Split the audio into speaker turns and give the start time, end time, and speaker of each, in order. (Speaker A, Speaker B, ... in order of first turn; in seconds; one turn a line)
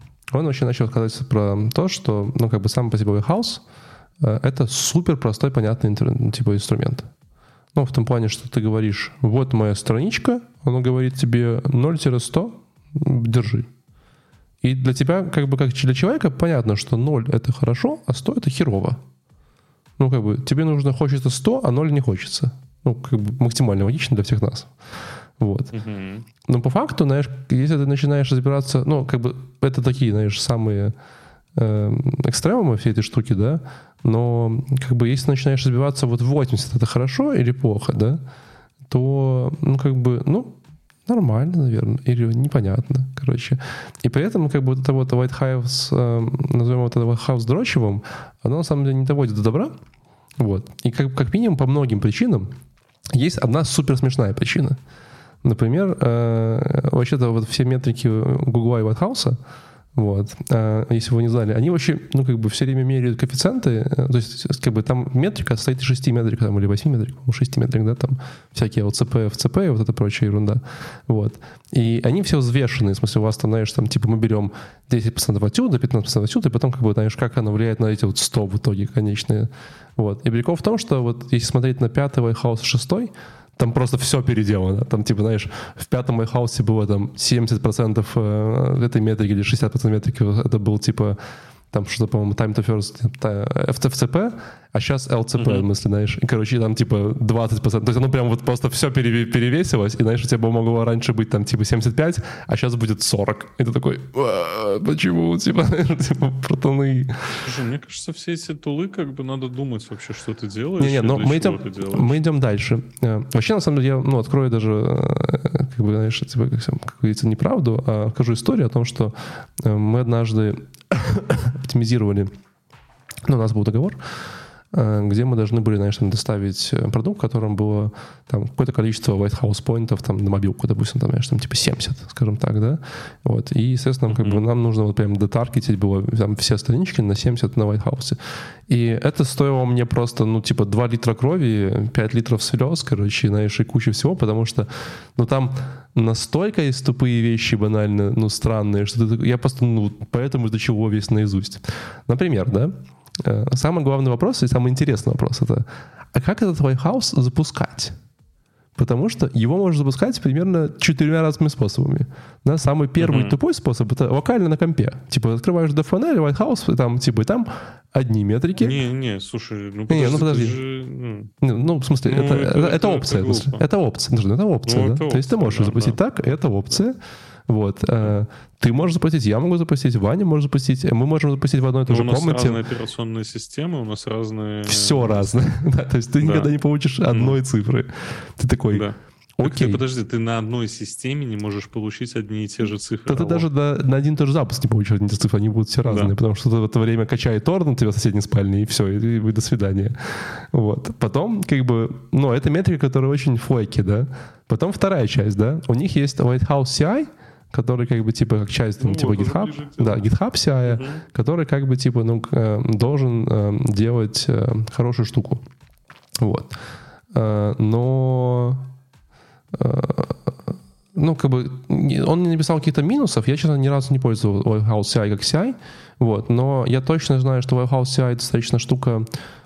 Speaker A: 0.3-3.6
Speaker A: 4.2-7.1
Speaker A: 7.7-13.7
Speaker A: 14.6-19.0
Speaker A: 20.0-24.7
Speaker A: 25.4-25.7
Speaker B: 25.7-26.3
Speaker A: 26.4-30.9
Speaker A: 31.5-38.2
Speaker A: 38.9-49.8
Speaker A: 50.4-52.5
Speaker A: 53.1-54.8
Speaker A: 55.4-59.4
Speaker A: 59.9-91.2
Speaker A: 91.7-107.4
Speaker B: 95.4-95.7
Speaker B: 107.4-112.2
Speaker A: 110.8-122.3
Speaker A: 123.2-124.0
Speaker A: 124.7-157.9
Speaker B: 134.1-134.4
Speaker A: 158.8-168.8
Speaker B: 163.0-163.4
Speaker B: 168.6-171.3
Speaker A: 169.9-170.6
Speaker A: 171.4-182.6
Speaker B: 172.1-173.6
Speaker B: 174.7-176.0
Speaker B: 181.9-185.3
Speaker A: 184.7-188.8
Speaker B: 186.2-186.5
Speaker B: 187.1-187.4
Speaker B: 188.7-193.5
Speaker A: 189.4-189.8
Speaker A: 193.1-215.4
Speaker B: 195.8-196.1
Speaker B: 208.8-210.1
Speaker B: 210.6-211.0
Speaker A: 216.2-216.6
Speaker A: 217.1-218.7
Speaker A: 219.5-229.1